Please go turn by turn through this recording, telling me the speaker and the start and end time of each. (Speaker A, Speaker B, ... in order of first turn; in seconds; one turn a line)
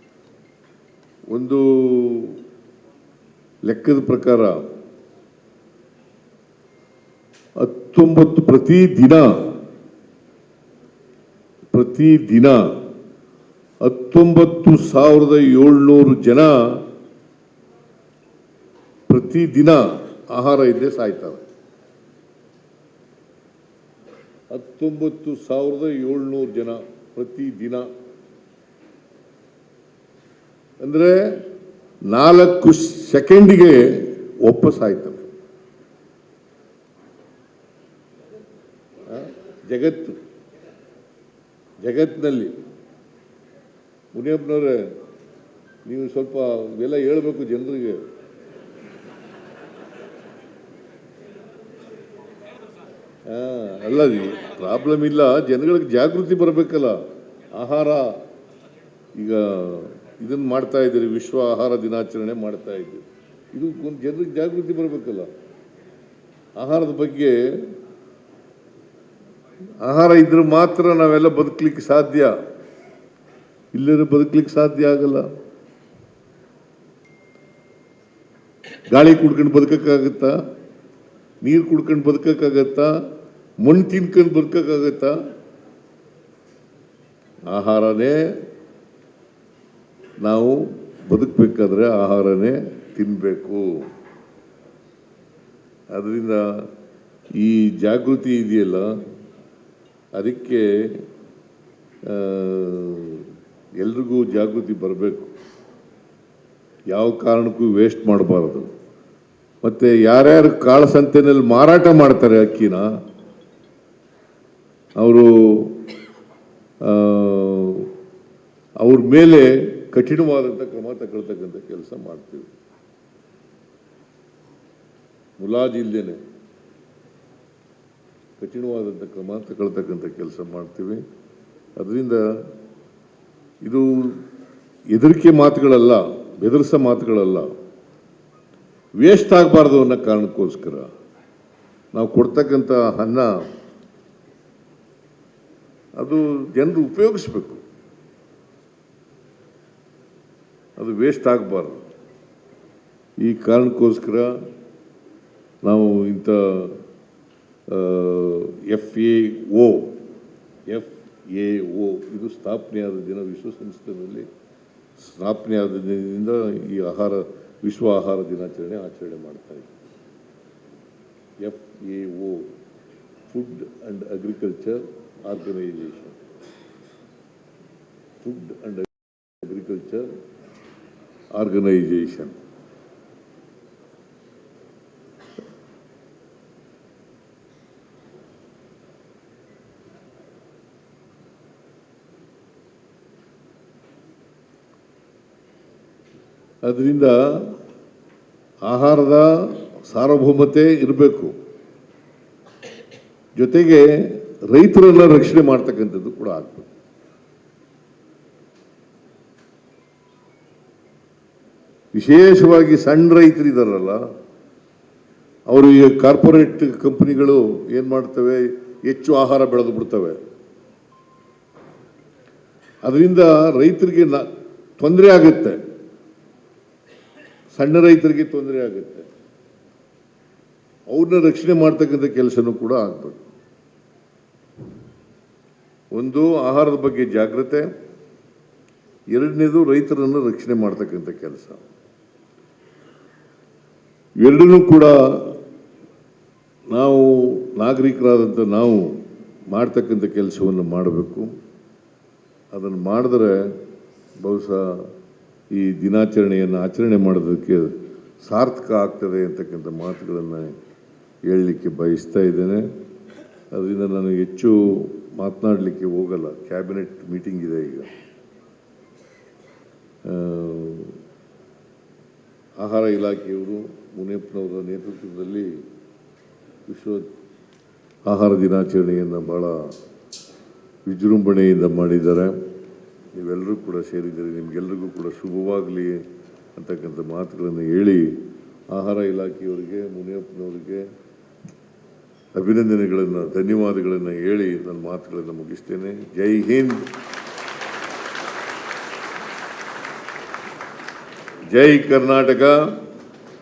Speaker A: 1.3-2.4
Speaker A: 3.6-4.6
Speaker A: 7.6-9.3
Speaker A: 11.7-12.7
Speaker A: 13.8-16.8
Speaker A: 19.1-21.4
Speaker A: 24.5-27.9
Speaker A: 30.8-31.4
Speaker A: 32.1-35.3
Speaker A: 39.1-40.2
Speaker A: 41.8-42.5
Speaker A: 44.1-44.9
Speaker A: 45.9-48.0
Speaker A: 53.3-57.0
Speaker A: 57.5-58.2
Speaker A: 59.1-65.3
Speaker A: 66.6-67.4
Speaker A: 69.8-72.3
Speaker A: 73.7-75.3
Speaker A: 78.9-80.3
Speaker A: 81.4-82.9
Speaker A: 83.6-85.2
Speaker A: 87.5-88.2
Speaker A: 90.2-93.8
Speaker A: 95.9-96.7
Speaker A: 97.3-98.9
Speaker A: 100.2-101.0
Speaker A: 102.0-103.3
Speaker A: 103.8-105.3
Speaker A: 106.9-108.7
Speaker A: 109.6-112.9
Speaker A: 115.0-115.8
Speaker A: 116.8-117.9
Speaker A: 118.8-122.5
Speaker A: 125.4-126.2
Speaker A: 128.4-131.0
Speaker A: 131.8-132.2
Speaker A: 133.6-134.2
Speaker A: 134.9-137.5
Speaker A: 139.0-140.9
Speaker A: 141.9-143.4
Speaker A: 146.0-147.6
Speaker A: 150.8-151.8
Speaker A: 153.2-154.3
Speaker A: 155.6-156.8
Speaker A: 157.7-160.0
Speaker A: 160.7-164.3
Speaker A: 165.0-169.7
Speaker A: 171.4-172.4
Speaker A: 173.3-176.2
Speaker A: 178.2-180.1
Speaker A: 181.3-182.3
Speaker A: 196.6-197.6
Speaker A: 198.7-201.3
Speaker A: 203.3-206.7
Speaker A: 211.9-214.0
Speaker A: 215.5-220.2
Speaker A: 222.8-224.3
Speaker A: 224.8-225.6
Speaker A: 227.5-229.1
Speaker A: 230.9-233.2
Speaker A: 235.9-237.7
Speaker A: 239.1-241.6
Speaker A: 244.2-245.4
Speaker A: 246.7-248.9
Speaker A: 249.5-251.3
Speaker A: 252.5-253.4
Speaker A: 254.2-254.9
Speaker A: 255.5-260.5
Speaker A: 261.2-262.7
Speaker A: 263.5-267.9
Speaker A: 270.0-271.0
Speaker A: 272.6-275.6
Speaker A: 276.7-277.1
Speaker A: 278.0-279.7
Speaker A: 280.9-282.4
Speaker A: 283.1-286.0
Speaker A: 286.6-288.1
Speaker A: 288.7-290.9
Speaker A: 292.3-296.9
Speaker A: 301.5-302.6